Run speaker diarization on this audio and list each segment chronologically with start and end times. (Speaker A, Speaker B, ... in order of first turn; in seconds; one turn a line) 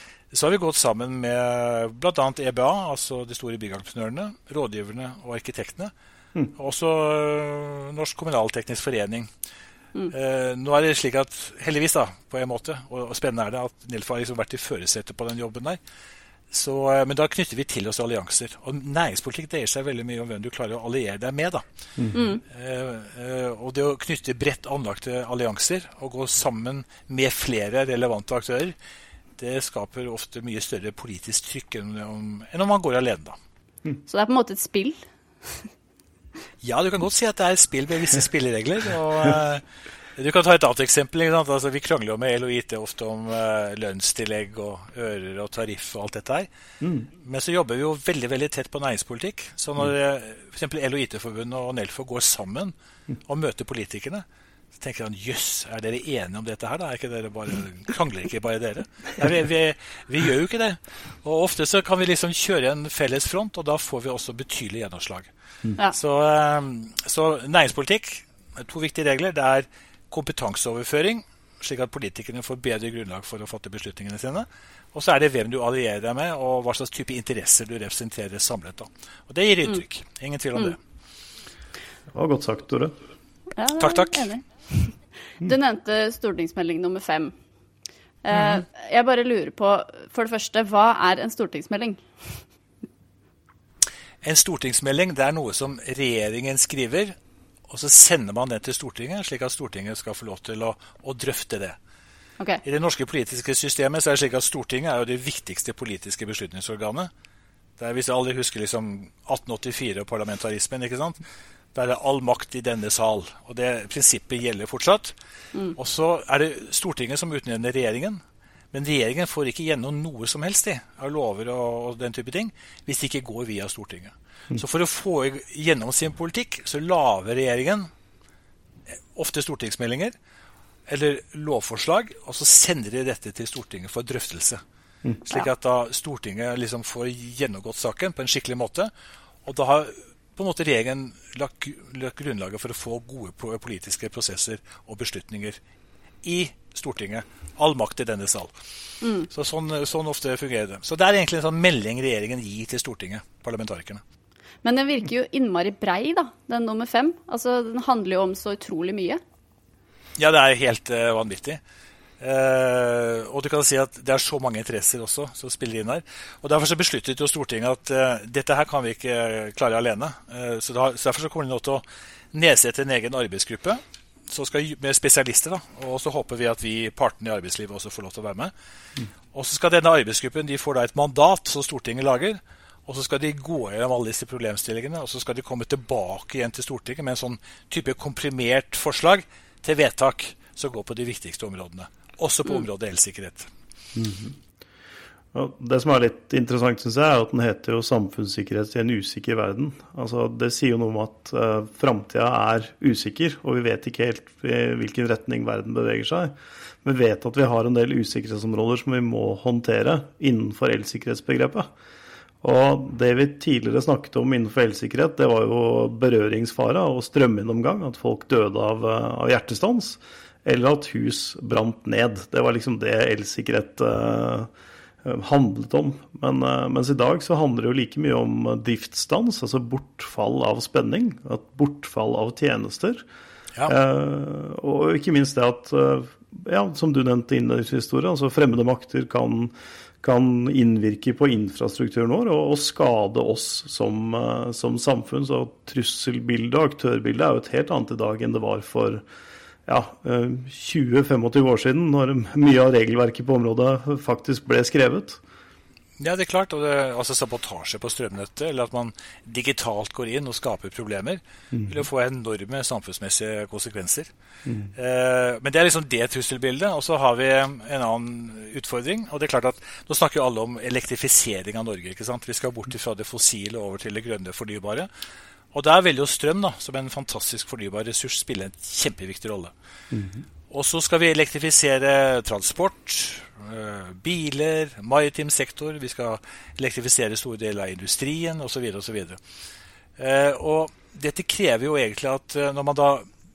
Speaker A: 0.3-5.9
Speaker A: 6.6-9.3
Speaker A: 10.1-15.8
Speaker A: 16.5-21.6
Speaker B: 22.1-22.4
Speaker A: 22.5-28.8
Speaker A: 29.4-33.4
Speaker B: 34.1-35.7
Speaker A: 36.6-39.6
Speaker A: 40.2-46.5
Speaker C: 46.8-47.1
Speaker A: 47.2-52.7
Speaker A: 53.3-54.2
Speaker A: 54.8-65.3
Speaker A: 65.9-80.8
Speaker C: 82.1-82.9
Speaker B: 83.6-87.3
Speaker A: 83.8-84.3
Speaker B: 88.2-92.0
Speaker A: 94.2-97.2
Speaker A: 97.7-101.8
Speaker A: 102.6-107.1
Speaker A: 107.8-111.2
Speaker A: 111.8-115.2
Speaker A: 115.8-118.2
Speaker A: 118.7-127.9
Speaker A: 129.2-130.1
Speaker A: 130.9-134.6
Speaker A: 135.3-138.9
Speaker A: 139.4-145.6
Speaker A: 146.2-148.5
Speaker B: 149.0-149.3
Speaker A: 149.3-154.0
Speaker B: 154.6-159.2
Speaker A: 160.2-161.6
Speaker A: 162.2-178.5
Speaker A: 179.3-193.5
Speaker C: 193.9-194.4
Speaker C: 195.3-211.7
Speaker C: 212.4-224.5
Speaker C: 225.0-233.0
Speaker C: 233.7-249.0
Speaker C: 249.7-255.2
Speaker A: 256.0-264.1
Speaker C: 261.5-261.8
Speaker C: 264.4-264.7
Speaker A: 264.8-274.9
Speaker A: 275.5-279.5
Speaker C: 279.9-280.2
Speaker A: 280.5-289.2
Speaker A: 290.0-293.1